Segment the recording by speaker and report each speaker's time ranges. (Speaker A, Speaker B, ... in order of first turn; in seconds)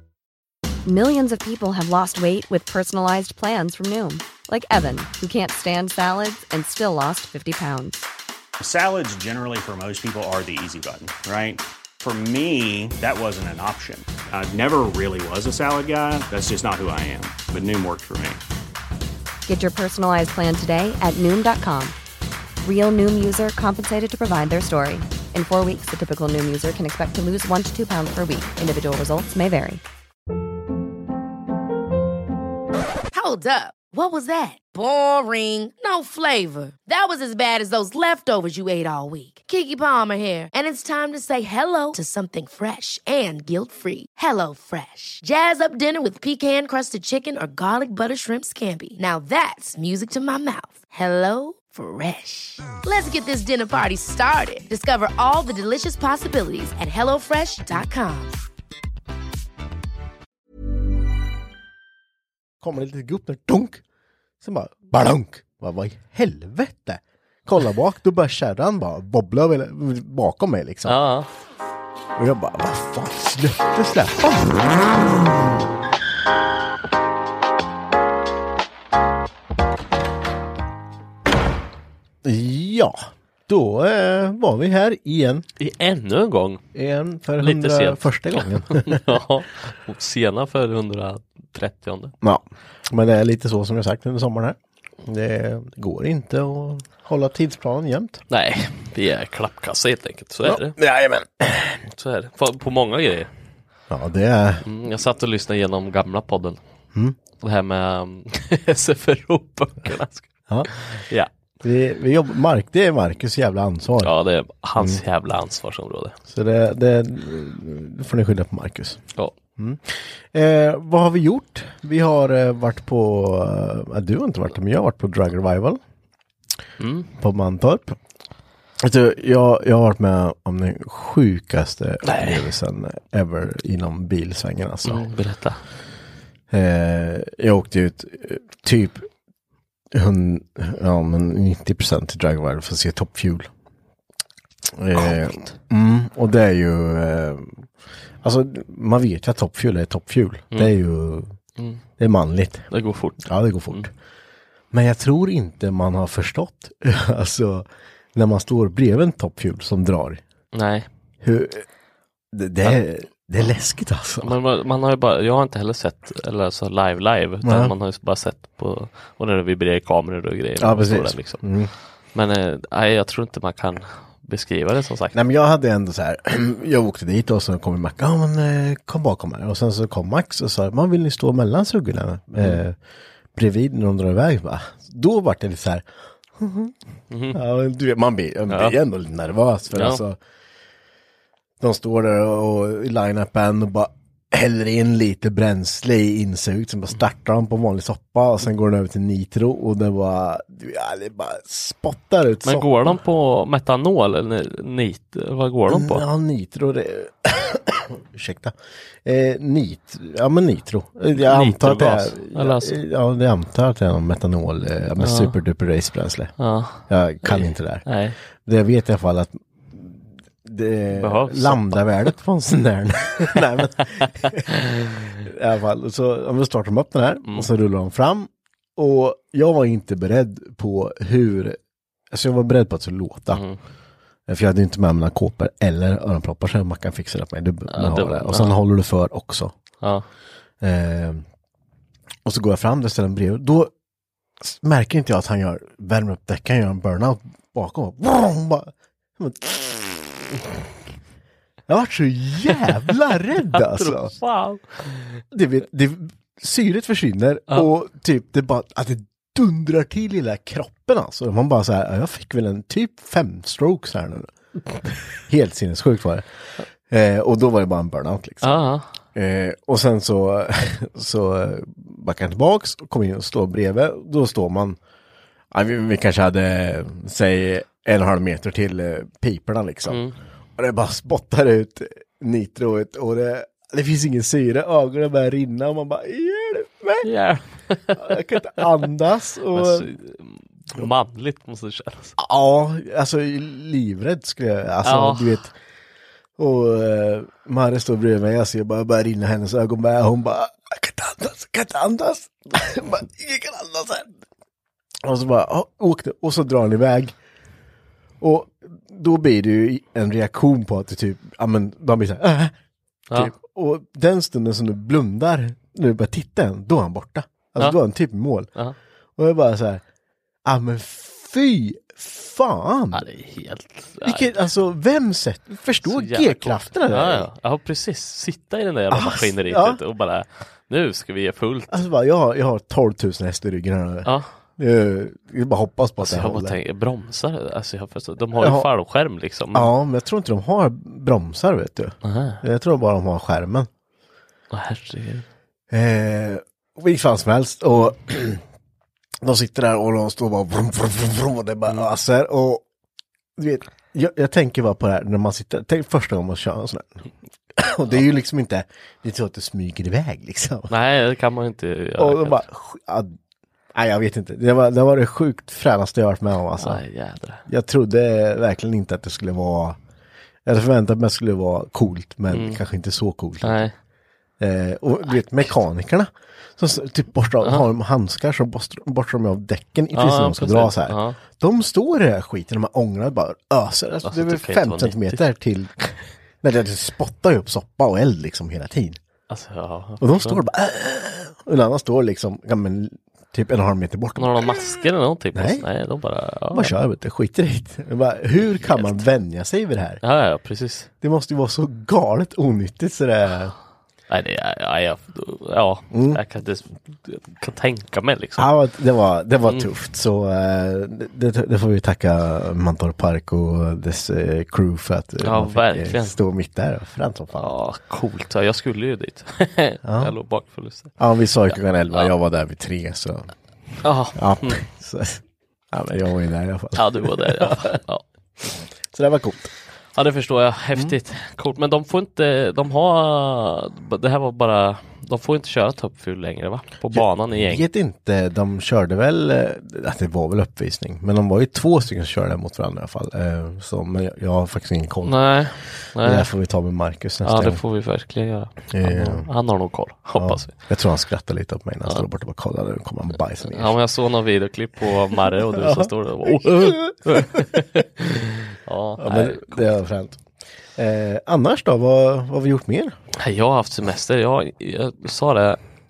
Speaker A: 0.8-8.1, 19.5-21.9, 22.6-29.8
Speaker B: 8.6-18.4
Speaker C: 33.1-58.4
Speaker D: 62.6-63.8, 64.4-71.0, 72.2-75.4, 82.2-85.5, 86.7-89.0, 92.2-98.2, 100.4-101.8, 103.9-104.6, 111.6-114.1, 114.8-115.0, 116.3-119.0, 119.6-125.8, 127.2-128.0, 128.8-135.1, 136.5-139.1, 139.9-143.5, 144.7-147.7, 148.2-151.3, 152.0-152.7, 153.2-153.9, 154.7-160.2, 161.2-161.7, 162.3-164.3, 167.4-167.7, 170.6-171.7, 175.1-182.8, 183.3-186.8, 187.3-190.2, 191.6-202.9, 205.7-216.3, 216.9-217.9, 218.4-224.5, 225.2-231.6, 232.1-233.4, 234.3-239.5, 240.6-241.2, 242.2-243.7, 244.4-250.6, 251.7-254.1, 255.3-264.3, 265.2-266.2, 266.9-268.6, 269.1-274.8, 275.5-280.0, 280.6-287.1, 287.9-289.9, 292.2-295.5, 296.4-304.1, 305.0-307.1, 308.2-312.5, 313.1-318.5, 319.2-319.8, 320.4-323.0, 324.0-327.3, 328.9-329.8, 331.7-336.6, 338.3-338.7, 339.5-343.7, 345.7-348.4, 349.2-352.6, 353.4-357.0, 357.6-360.7, 362.0-363.1, 363.7-366.8, 367.4-369.8, 370.4-373.7, 374.4-389.0, 390.0-394.7, 395.3-395.6, 396.5-400.0, 401.0-403.5, 405.9-406.2, 408.4-417.5, 419.8-420.1, 421.0-423.3, 424.1-427.8, 428.9-429.5, 436.9-445.3, 446.0-447.6, 448.7-449.3, 450.1-453.8, 455.1-457.6, 459.0-460.2, 460.8-462.9
Speaker E: 70.8-71.3, 85.6-86.6, 87.4-92.1, 98.3-100.8, 101.9-103.3, 104.6-106.6, 107.4-111.3, 114.0-116.2, 126.8-127.1, 132.0-132.4, 134.8-135.6, 151.6-151.8, 152.7-153.8, 160.5-160.9, 164.2-171.4, 172.1-175.2, 187.1-187.4, 188.5-188.8, 189.7-190.0, 202.4-206.0, 211.1-212.8, 215.0-215.3, 216.4-218.2, 220.9-222.1, 224.0-225.0, 227.2-227.5, 233.3-233.6, 237.7-238.6, 253.5-255.2, 268.4-268.9, 279.9-280.1, 287.0-288.3, 289.5-292.1, 294.8-295.4, 322.9-324.3, 325.9-331.8, 334.0-334.3, 336.0-339.7, 342.0-342.4, 344.5-345.2, 360.7-362.4, 366.6-367.4, 372.3-372.6, 373.4-373.7, 379.9-381.2, 384.0-385.2, 389.3-390.4, 394.2-396.7, 398.7-399.0, 400.0-400.9, 404.1-408.5, 415.2-416.1, 417.4-420.9, 423.8-424.6, 426.7-428.0, 429.9-437.6, 445.0-446.3, 447.2-450.5, 453.5-459.7, 463.2-465.6